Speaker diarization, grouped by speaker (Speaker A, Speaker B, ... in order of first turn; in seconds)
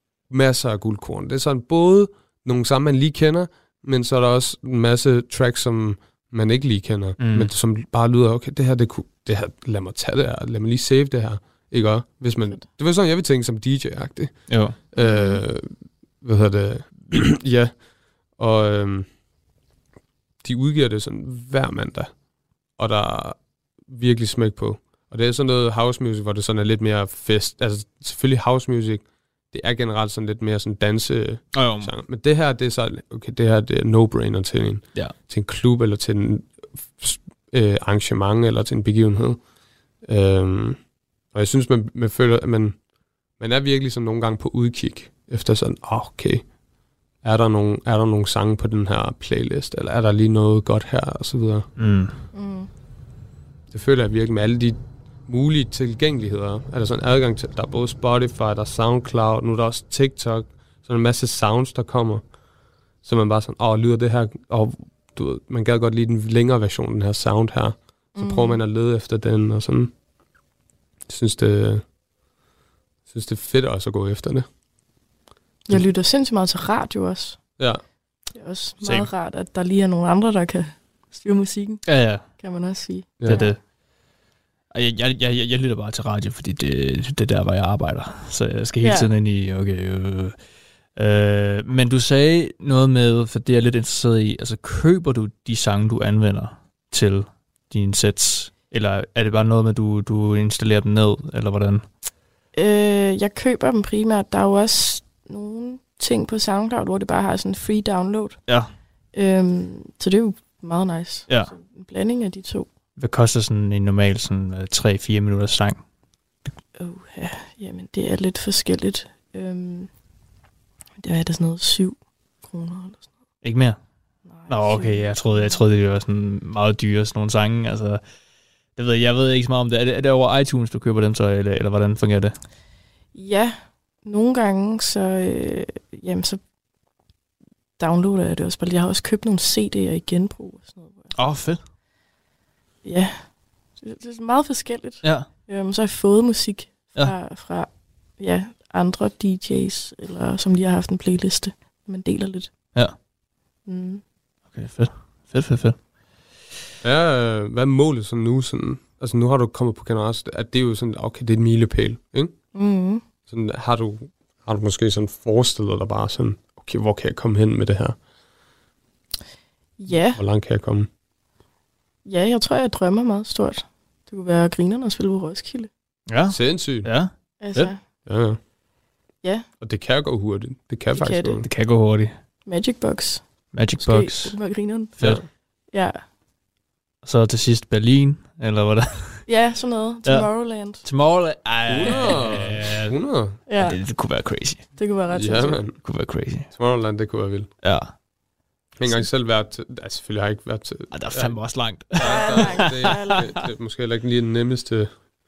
Speaker A: 0.3-19.2, 20.4-39.5, 40.0-42.9, 43.4-46.5, 47.2-51.7, 53.7-62.3, 63.0-69.9, 71.1-71.9, 73.1-74.5, 83.2-83.5, 156.8-162.4, 163.2-168.0, 169.9-170.9, 176.3-176.9, 178.1-178.4, 179.6-181.5, 185.0-185.3, 191.7-193.4, 195.1-197.5, 198.8-205.0
Speaker B: 7.2-7.5, 14.5-14.8, 31.5-31.9, 51.8-52.1, 78.8-79.1, 81.9-82.3, 83.2-83.6, 84.7-90.4, 91.0-101.8, 108.5-108.7, 111.3-111.5, 113.0-115.8, 123.4-123.8, 124.5-128.0, 128.8-132.4, 141.2-141.6, 145.0-145.3, 154.5-155.8, 176.1-177.7, 181.4-182.2, 183.5-185.2, 187.0-189.3, 190.1-194.8, 195.8-196.5, 197.6-197.9, 200.9-203.0
Speaker C: 15.0-15.4, 52.3-52.7, 68.2-68.6, 75.7-77.6, 78.3-83.6, 88.8-89.1, 102.5-108.6, 109.1-112.7, 116.8-119.9, 121.0-123.1, 124.3-125.6, 133.1-136.4, 137.8-141.2, 142.8-152.8, 153.7-154.0, 162.5-163.0, 169.8-170.2, 172.1-175.7, 177.4-177.8, 179.2-179.5, 180.9-181.4, 182.5-185.0, 185.7-186.0, 189.3-190.8, 193.5-194.0, 194.8-195.6, 202.0-203.3